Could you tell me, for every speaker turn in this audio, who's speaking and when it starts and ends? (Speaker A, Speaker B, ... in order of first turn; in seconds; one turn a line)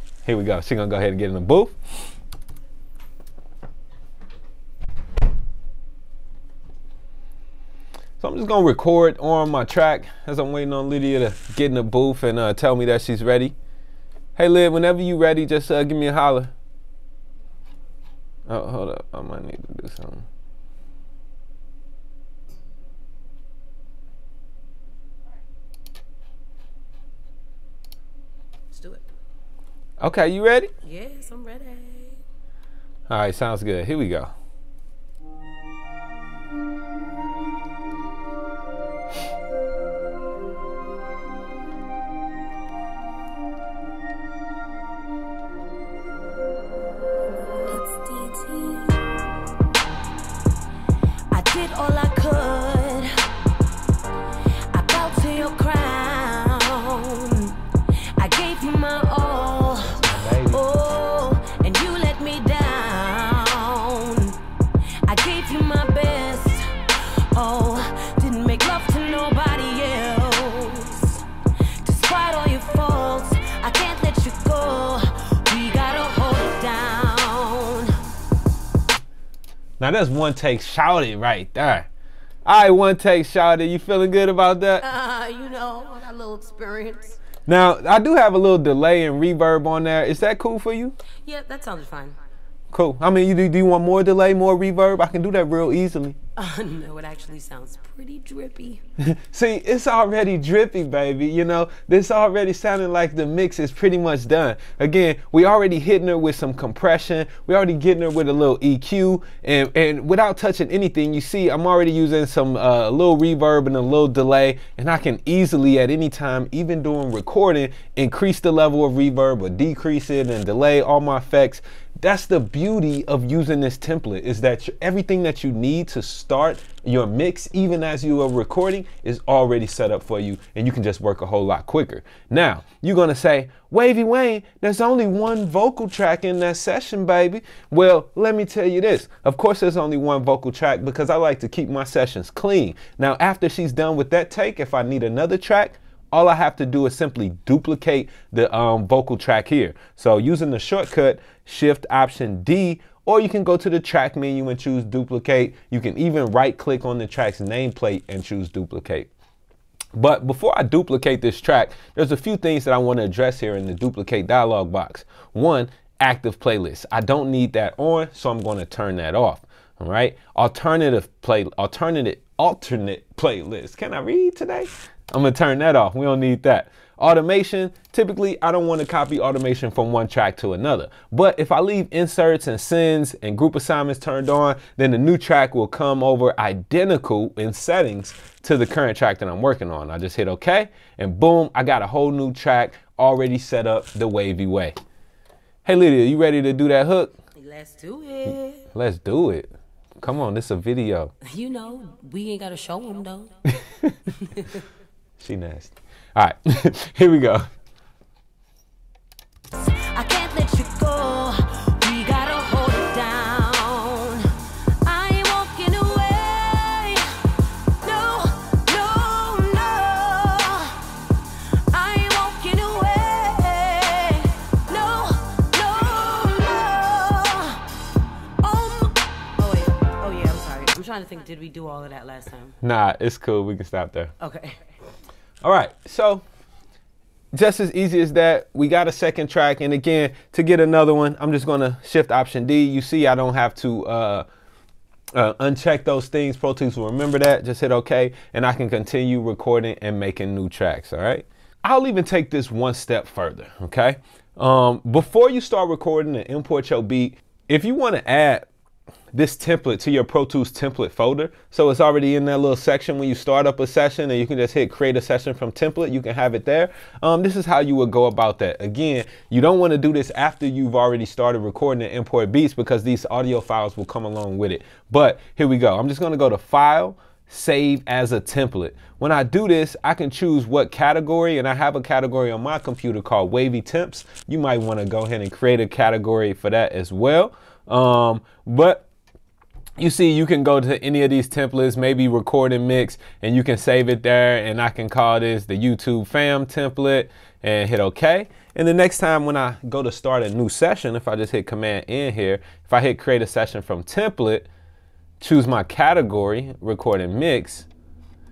Speaker A: 0.2-1.8
Speaker A: 8.2-13.6
Speaker A: 14.4-16.5
Speaker A: 18.5-20.2
Speaker B: 28.7-29.0
Speaker A: 30.0-30.7
Speaker B: 30.8-32.2
Speaker A: 33.1-34.3
Speaker B: 47.6-49.0
Speaker B: 51.3-53.1
Speaker B: 54.7-57.6
Speaker B: 58.1-64.4
Speaker A: 59.9-60.6
Speaker B: 65.0-71.2
Speaker B: 71.8-78.0
Speaker A: 79.8-81.9
Speaker A: 82.4-84.8
Speaker B: 84.8-87.2
Speaker A: 87.5-91.0
Speaker B: 91.2-92.2
Speaker A: 92.7-96.2
Speaker B: 96.4-98.8
Speaker A: 99.0-159.1
Speaker A: 159.9-194.7
Speaker A: 195.7-197.1
Speaker B: 197.4-198.7
Speaker A: 198.7-201.1
Speaker B: 201.2-203.3
Speaker B: 204.1-204.6
Speaker A: 205.2-207.5
Speaker B: 209.6-217.1
Speaker B: 217.8-220.9
Speaker B: 221.7-227.6
Speaker B: 228.4-232.6
Speaker A: 232.6-234.1
Speaker B: 234.2-234.6
Speaker A: 235.4-236.2
Speaker A: 237.3-244.2
Speaker A: 245.1-258.5
Speaker A: 259.1-288.9
Speaker A: 289.8-304.5
Speaker A: 305.2-307.7